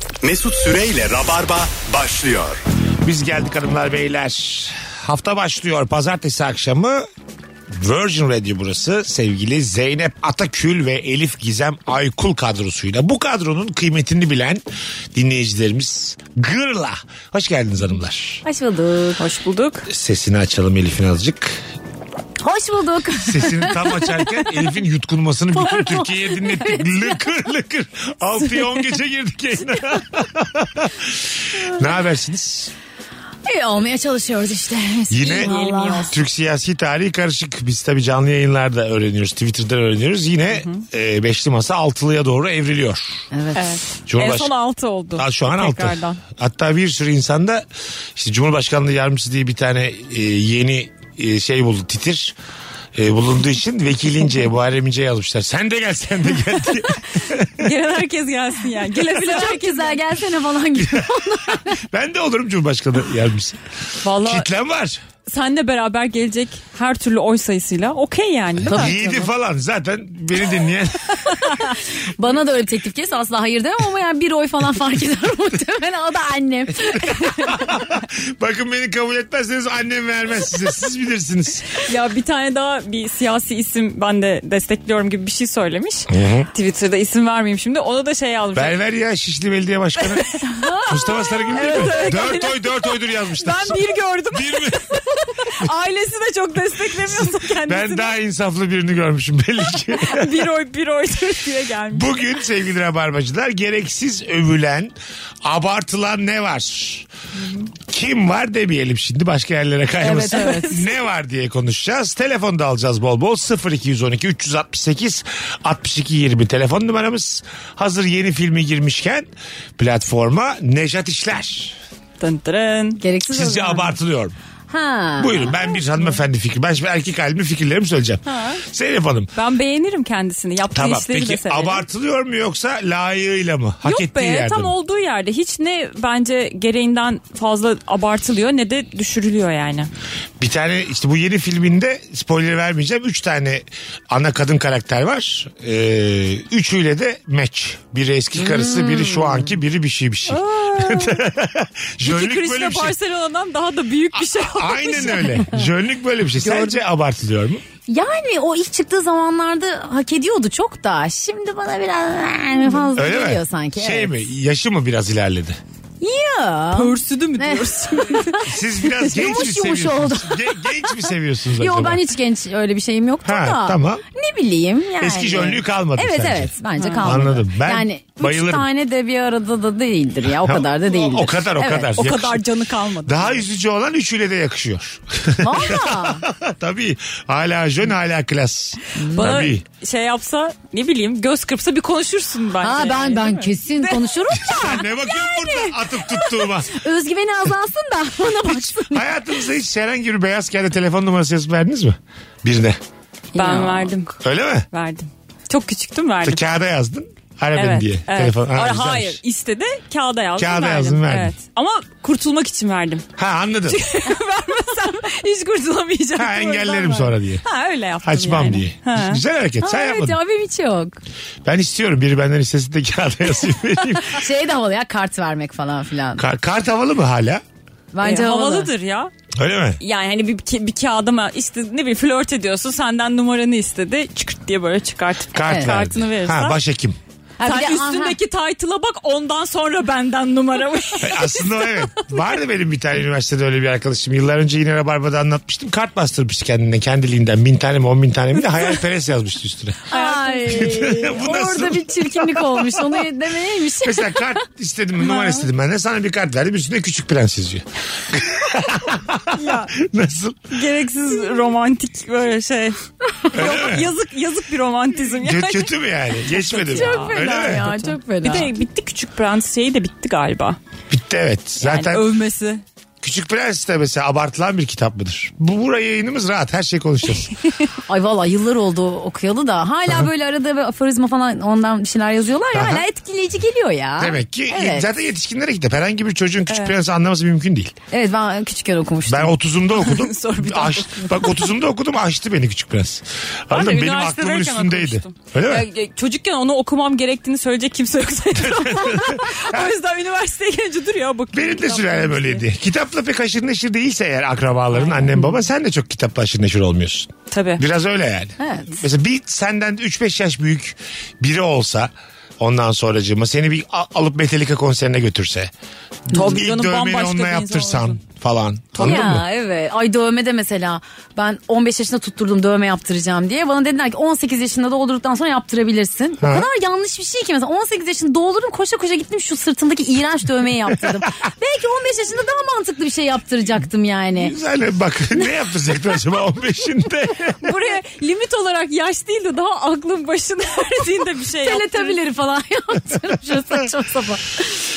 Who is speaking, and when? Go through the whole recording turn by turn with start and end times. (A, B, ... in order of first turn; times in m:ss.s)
0:00.2-0:02.6 A
0:03.0-0:07.1 B
0:07.7-0:14.6 B
0:15.1-0:18.4 B
0:18.4-0:19.2 C
0:19.2-0:19.9 D
0:19.9-0:21.6 B
0:22.4-0:24.4 C
0:23.2-0:32.7 B
0:25.5-0:27.2 C
0:33.5-0:36.1 C
0:35.1-0:35.6 B
0:35.2-0:36.2 D
0:36.1-0:43.3 B
0:43.3-0:43.6 C
0:43.6-0:46.2 D
0:44.1-0:44.5 B
0:45.2-0:47.6 B
0:48.2-0:52.4 B
0:53.0-0:57.7 B
0:57.6-1:00.0 D
0:59.0-1:01.8 C
1:00.8-1:03.6 B
1:04.0-1:04.5 D
1:04.2-1:05.0 B
1:05.3-1:08.9 D
1:08.7-1:11.3 B
1:08.7-1:09.3 C
1:12.2-1:17.7 C
1:17.1-1:21.7 B
1:21.8-1:28.8 D
1:26.1-1:26.5 B
1:28.6-1:30.3 B
1:30.1-1:31.0 D
1:30.4-1:32.2 C
1:30.9-1:35.0 B
1:31.5-1:38.2 D
1:37.1-1:40.5 B
1:40.0-1:42.1 D
1:41.9-1:47.1 B
1:47.4-1:47.7 D
1:47.9-2:01.8 B
1:50.0-1:50.9 D
1:50.0-1:50.8 C
2:02.2-2:03.0 D
2:03.0-2:04.0 C
2:03.3-2:04.4 B
2:04.7-2:05.5 C
2:05.2-2:09.3 B
2:08.3-2:08.6 D
2:09.4-2:11.8 D
2:10.7-2:14.7 B
2:13.8-2:19.9 D
2:20.4-2:33.0 B
2:28.4-2:29.5 C
2:30.3-2:31.2 D
2:32.0-2:35.5 D
2:34.2-2:37.6 B
2:36.4-2:36.7 D
2:37.9-2:44.1 C
2:43.0-2:45.6 B
2:46.0-3:02.0 C
2:46.7-2:48.5 D
2:48.5-2:52.1 B
2:53.2-2:54.0 B
2:55.0-2:58.7 B
2:56.8-2:57.2 D
3:00.4-3:02.4 B
3:02.0-3:03.4 D
3:03.1-3:09.6 B
3:05.4-3:06.2 C
3:09.0-3:09.5 C
3:09.1-3:15.7 D
3:12.6-3:14.8 C
3:14.4-3:16.7 B
3:16.7-3:19.1 C
3:18.5-3:22.8 B
3:23.3-3:23.9 C
3:23.4-3:24.1 D
3:24.2-3:24.7 B
3:24.7-3:26.4 D
3:26.2-3:29.2 B
3:27.6-3:33.1 D
3:30.4-3:31.3 B
3:33.2-3:33.8 B
3:33.7-3:39.2 D
3:36.2-3:37.5 B
3:38.0-3:40.2 B
3:39.6-3:41.0 C
3:41.4-3:44.2 B
3:44.1-3:46.2 C
3:46.2-3:47.4 B
3:47.9-3:48.7 C
3:48.0-3:49.1 D
3:49.4-3:49.8 B
3:49.8-3:56.6 D
3:55.3-3:57.0 B
3:57.4-3:58.2 C
3:57.4-4:01.8 D
4:01.0-4:09.9 B
4:09.9-4:10.8 D
4:09.9-4:14.3 C
4:10.5-4:13.0 B
4:13.8-4:20.4 B
4:15.0-4:15.5 D
4:19.4-4:19.8 D
4:20.5-4:30.6 D
4:23.3-4:23.9 B
4:25.2-4:27.7 B
4:26.7-4:28.5 C
4:30.9-4:32.1 B
4:31.6-4:32.6 D
4:33.0-4:37.3 B
4:37.9-4:44.9 C
4:42.5-4:42.8 B
4:44.0-4:47.7 B
4:46.5-4:46.8 D
4:47.9-4:49.3 C
4:49.1-4:55.7 B
4:49.8-4:51.5 D
4:53.5-5:02.4 D
4:58.4-4:59.7 B
5:01.3-5:15.5 B
5:04.7-5:05.3 D
5:07.3-5:07.6 D
5:08.4-5:08.8 C
5:16.1-5:19.2 B
5:16.1-5:18.0 D
5:18.7-5:19.1 D
5:18.8-5:34.4 C
5:26.2-5:26.5 B
5:34.2-5:37.5 B
5:37.4-5:42.0 D
5:41.4-5:44.6 C